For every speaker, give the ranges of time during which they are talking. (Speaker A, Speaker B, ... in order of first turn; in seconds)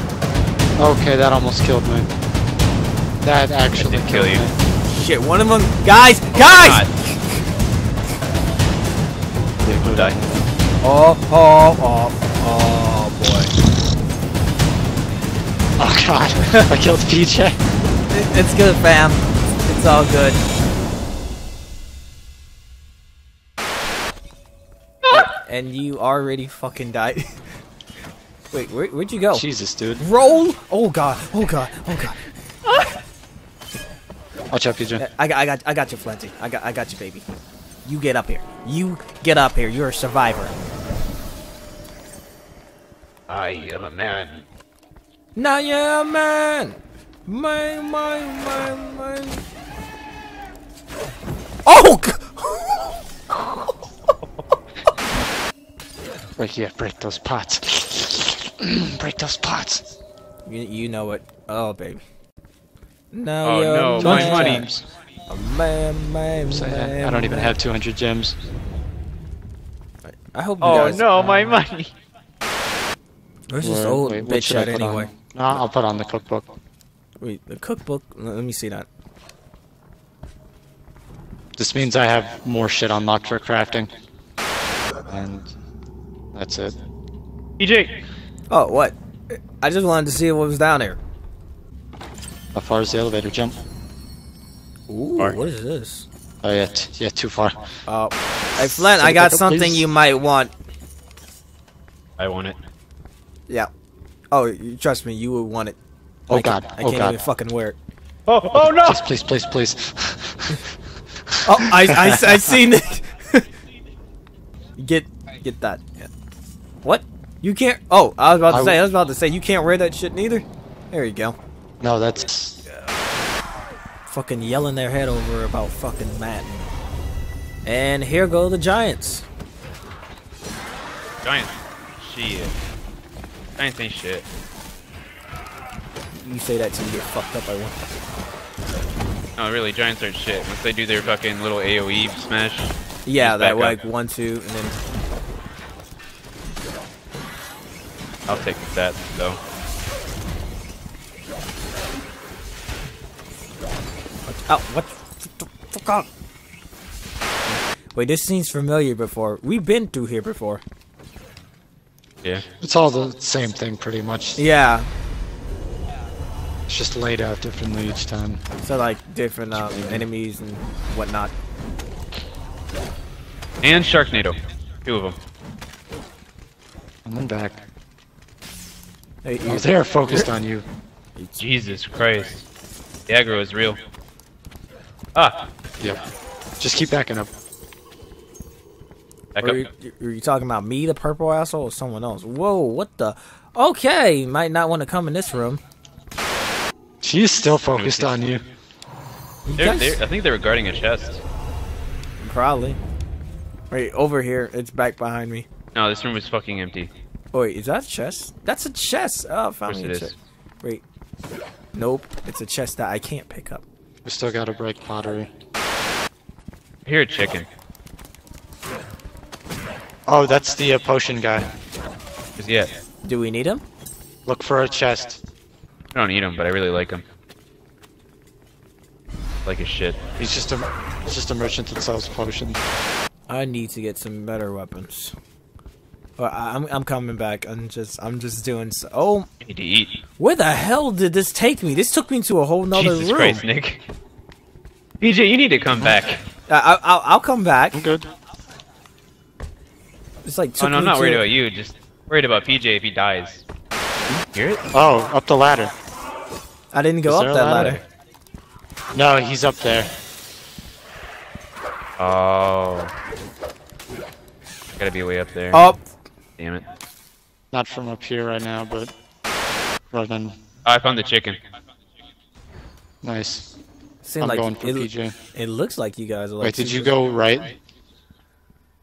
Speaker A: 0.8-2.1, 3.2-4.6, 9.6-10.4, 15.8-17.6, 29.3-30.0, 34.5-35.0, 56.4-59.8, 64.0-64.8, 66.5-68.4, 73.6-76.5, 81.5-83.9, 85.1-85.5, 86.3-86.8, 92.5-93.6, 96.4-97.7, 98.6-99.9, 106.3-107.2, 108.5-110.7, 111.3-112.5, 118.5-118.8, 121.8-122.6, 162.6-164.4, 166.7-168.4, 177.1-177.6, 179.4-180.6, 186.6-187.3, 197.0-198.4, 214.0-215.3, 220.1-221.5, 224.2-225.2, 230.2-232.6, 247.7-248.1, 254.7-255.7, 257.1-257.8, 258.9-259.9, 267.5-268.9, 269.9-270.4, 273.0-273.5, 274.2-275.1, 276.4-277.5
Speaker B: 3.7-4.5, 6.3-6.9, 9.7-10.2, 43.3-44.4, 63.4-64.7, 70.6-71.9, 87.6-88.0, 102.2-102.6, 108.3-109.1, 131.2-132.5, 133.6-134.2, 139.4-143.8, 148.3-149.4, 169.6-170.0, 173.6-175.2, 181.3-182.4, 183.1-183.8, 185.1-185.5, 189.3-189.7, 197.7-198.2, 199.6-201.2, 205.7-206.9, 209.7-210.1, 216.8-217.5, 222.4-222.7, 225.9-227.0, 229.4-230.0, 239.4-240.0, 242.7-243.8, 245.0-246.2, 250.6-253.4, 254.1-254.7, 257.6-257.8, 262.0-262.9, 264.8-265.7, 266.4-266.6, 270.6-271.4
Speaker C: 4.9-7.4, 10.8-13.5, 18.1-20.4, 25.1-27.4, 28.5-29.4, 30.0-32.2, 35.0-37.2, 37.8-40.5, 45.3-49.4, 51.6-53.0, 60.5-62.0, 63.1-64.7, 65.3-67.6, 70.0-71.6, 73.5-75.1, 77.2-78.9, 88.5-91.0, 94.9-96.1, 97.9-100.5, 104.3-105.8, 106.3-107.8, 111.4-113.5, 114.8-116.1, 116.8-121.4, 124.0-126.7, 127.6-129.3, 136.2-137.8, 143.0-144.8, 154.3-156.1, 157.5-160.6, 164.4-164.9, 168.6-171.3, 179.2-180.3, 189.4-195.6, 199.4-200.0, 202.2-202.8, 203.7-205.5, 207.3-210.8, 211.7-213.6, 223.0-223.6, 233.3-235.1, 236.2-239.3, 240.2-243.4, 246.5-247.9, 250.2-251.2, 256.7-257.8, 265.5-265.8, 274.0-277.0